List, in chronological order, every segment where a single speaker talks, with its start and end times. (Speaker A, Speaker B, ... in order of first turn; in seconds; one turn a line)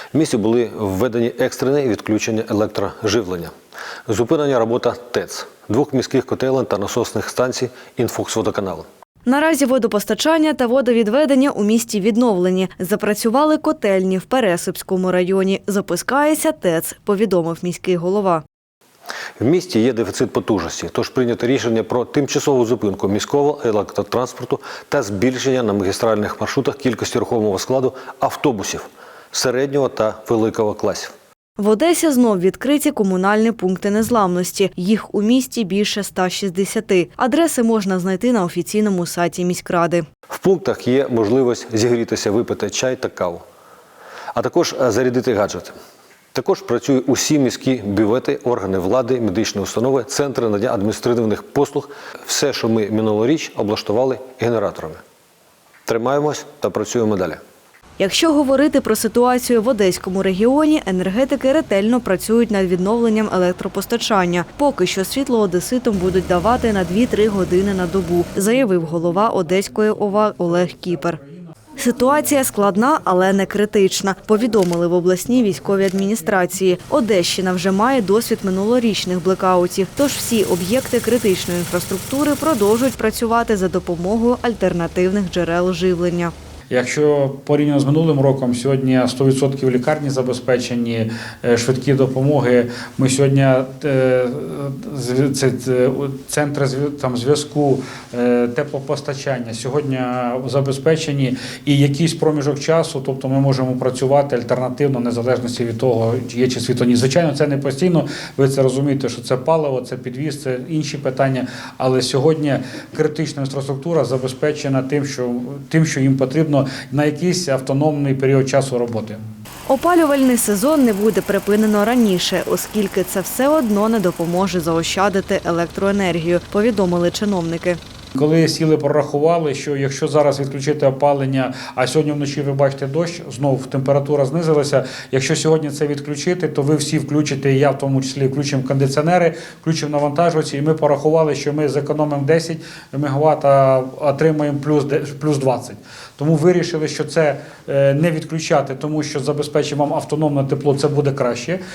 Speaker A: 0.1-3.5
Speaker A: 4.1-8.9
Speaker B: 9.2-18.4
Speaker A: 19.4-31.1
Speaker B: 31.6-40.0
Speaker A: 40.3-43.4
Speaker A: 44.3-45.7
Speaker A: 46.3-55.0
Speaker A: 55.9-57.4
Speaker B: 58.0-71.2
Speaker B: 71.8-86.3
Speaker C: 86.7-119.2
Speaker B: 119.7-127.8
Speaker C: 128.2-151.6